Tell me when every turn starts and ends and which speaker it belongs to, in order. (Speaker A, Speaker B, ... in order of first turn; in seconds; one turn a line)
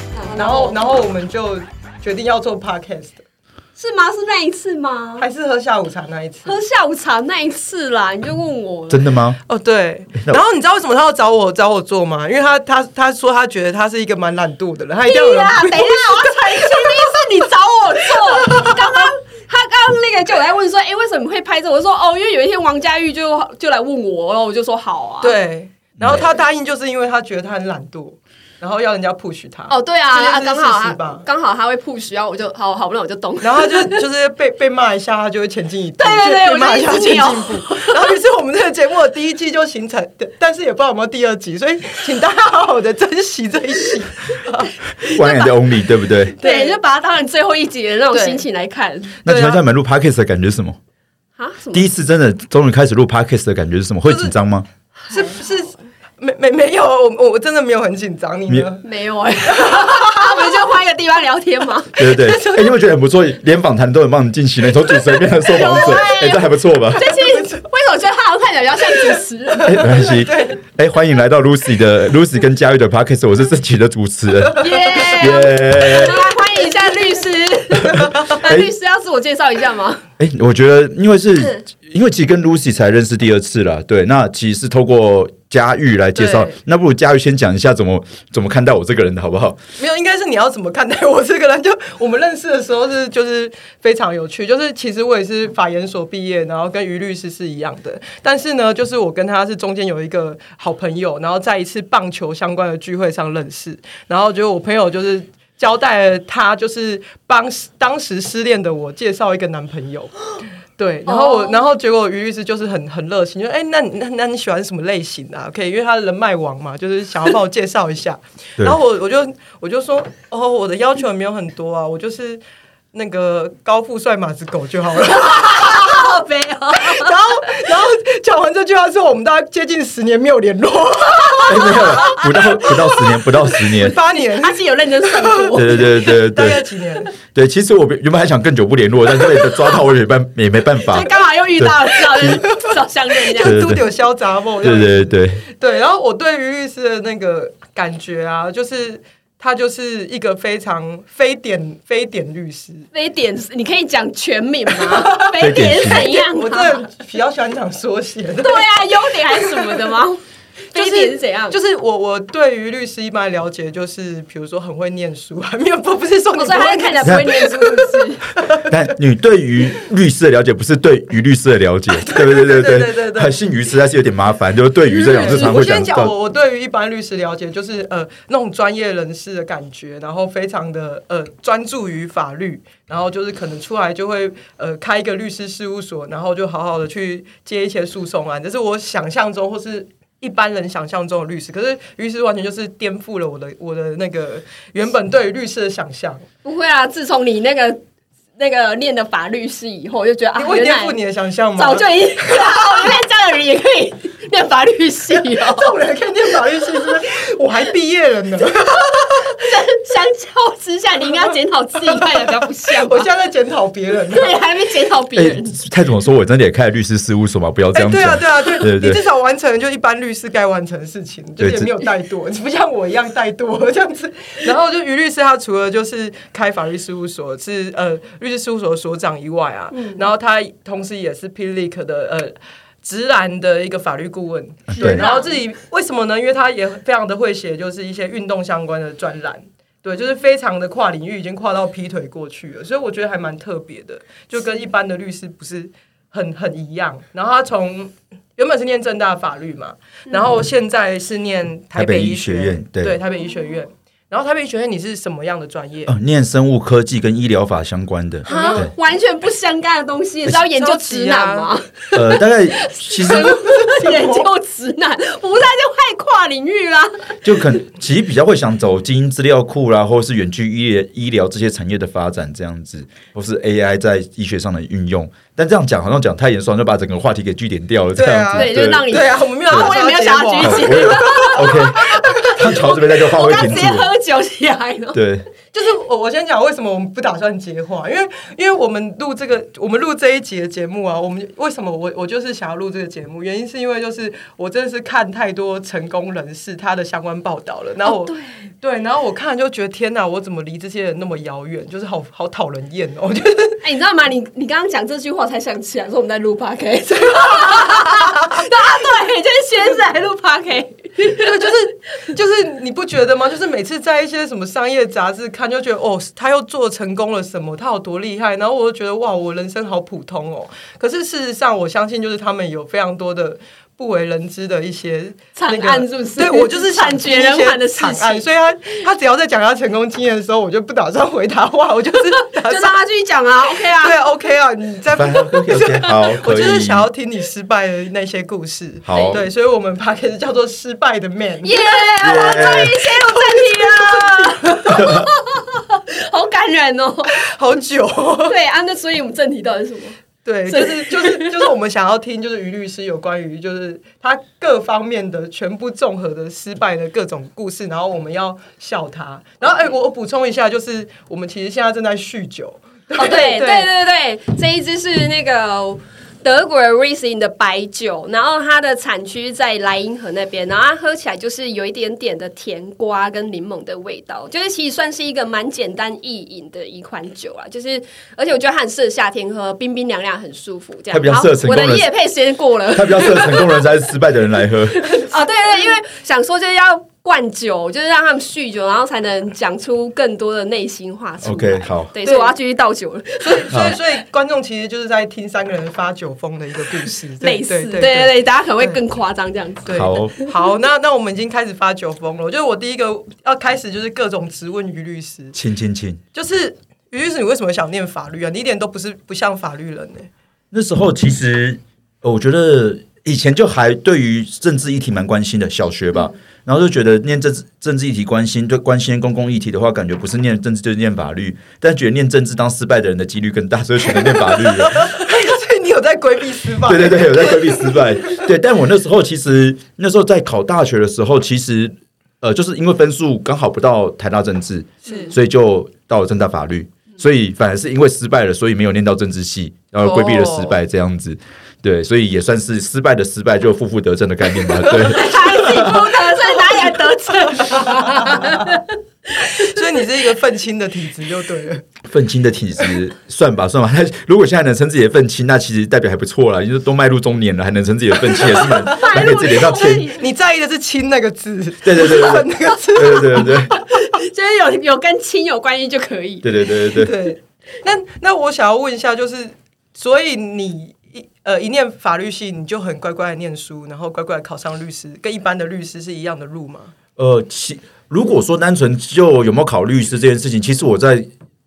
Speaker A: 0.2-0.8
Speaker B: 0.4-3.2
Speaker A: 3.8-5.3
Speaker B: 5.2-6.6
Speaker A: 6.5-9.1
Speaker C: 8.9-9.4
Speaker B: 9.5-17.5
Speaker A: 15.1-25.4
Speaker B: 18.1-19.1
Speaker B: 25.2-31.2
Speaker A: 29.7-34.0
Speaker B: 33.4-44.7
Speaker A: 36.0-38.1
Speaker A: 45.0-45.5
Speaker C: 45.0-46.4
Speaker A: 46.4-49.2
Speaker B: 46.4-46.8
Speaker B: 48.1-48.4
Speaker C: 49.2-50.8
Speaker B: 49.3-49.6
Speaker A: 51.4-51.9
Speaker C: 51.7-54.7
Speaker B: 54.1-54.4
Speaker B: 55.1-58.9
Speaker A: 55.1-55.5
Speaker A: 58.8-62.0
Speaker B: 59.5-60.4
Speaker C: 62.0-67.0
Speaker B: 62.0-62.7
Speaker A: 65.5-70.1
Speaker B: 67.0-67.6
Speaker C: 69.6-76.2
Speaker B: 69.9-70.6
Speaker A: 74.5-80.0
Speaker C: 77.9-78.7
Speaker C: 80.2-89.6
Speaker B: 86.2-86.5
Speaker B: 89.8-110.2
Speaker B: 110.8-122.4
Speaker A: 111.1-111.6
Speaker B: 122.9-126.0
Speaker A: 125.1-127.6
Speaker B: 126.7-137.1
Speaker A: 131.2-132.7
Speaker C: 131.4-134.0
Speaker A: 134.4-135.9
Speaker C: 135.6-136.6
Speaker C: 137.2-142.4
Speaker A: 140.9-143.7
Speaker B: 143.3-152.9
Speaker C: 143.4-143.8
Speaker C: 144.6-145.4
Speaker A: 152.9-156.9
Speaker B: 154.8-159.9
Speaker C: 155.4-156.2
Speaker A: 158.4-160.2
Speaker A: 160.7-161.6
Speaker B: 160.7-168.7
Speaker A: 166.4-168.3
Speaker C: 167.0-167.3
Speaker C: 168.7-176.1
Speaker B: 171.9-173.4
Speaker B: 174.9-196.2
Speaker A: 196.4-197.8
Speaker A: 198.4-201.0
Speaker B: 200.4-202.9
Speaker A: 201.6-205.7
Speaker B: 205.1-209.3
Speaker A: 209.1-213.1
Speaker B: 211.8-214.4
Speaker A: 214.1-215.6
Speaker C: 215.2-219.0
Speaker B: 217.7-255.9
Speaker C: 221.4-221.7
Speaker A: 229.7-230.0
Speaker A: 234.8-235.3
Speaker C: 234.8-235.0
Speaker C: 251.8-253.0
Speaker C: 255.9-258.7
Speaker B: 258.3-258.7
Speaker A: 258.3-267.2
Speaker B: 260.5-261.5
Speaker C: 261.9-263.3
Speaker B: 263.5-264.3
Speaker C: 267.2-279.7
Speaker B: 277.9-282.3
Speaker A: 278.3-285.0
Speaker C: 280.4-283.9
Speaker C: 284.9-285.3
Speaker B: 285.5-303.6
Speaker A: 297.8-298.5
Speaker A: 303.6-311.5
Speaker B: 307.3-307.8
Speaker B: 311.1-332.8
Speaker A: 325.4-328.2
Speaker A: 332.1-334.0
Speaker B: 333.8-341.8
Speaker C: 334.9-336.9
Speaker C: 338.9-339.2
Speaker A: 338.9-339.2
Speaker A: 341.4-347.2
Speaker C: 342.0-342.8
Speaker B: 342.5-344.8
Speaker C: 344.8-345.1
Speaker B: 347.1-348.4
Speaker A: 348.3-351.4
Speaker B: 350.2-363.7
Speaker A: 362.9-383.7
Speaker C: 380.9-381.9
Speaker C: 382.7-385.0
Speaker A: 384.8-394.0
Speaker C: 391.2-391.9
Speaker B: 392.1-392.4
Speaker B: 393.2-398.8
Speaker C: 393.5-393.8
Speaker A: 397.2-400.3
Speaker B: 399.7-405.4
Speaker C: 399.7-400.1
Speaker C: 405.4-406.0
Speaker B: 406.1-410.1
Speaker C: 410.5-425.1
Speaker B: 424.0-428.3
Speaker C: 426.6-445.9
Speaker B: 434.9-435.1
Speaker A: 434.9-435.1
Speaker B: 439.8-440.6
Speaker A: 444.7-449.5
Speaker B: 447.4-448.3
Speaker B: 449.3-451.7
Speaker C: 451.9-459.9
Speaker A: 458.7-460.0
Speaker B: 460.0-463.6
Speaker C: 461.6-463.6
Speaker A: 463.5-466.8
Speaker C: 466.2-466.9
Speaker B: 466.8-476.7
Speaker C: 477.0-481.1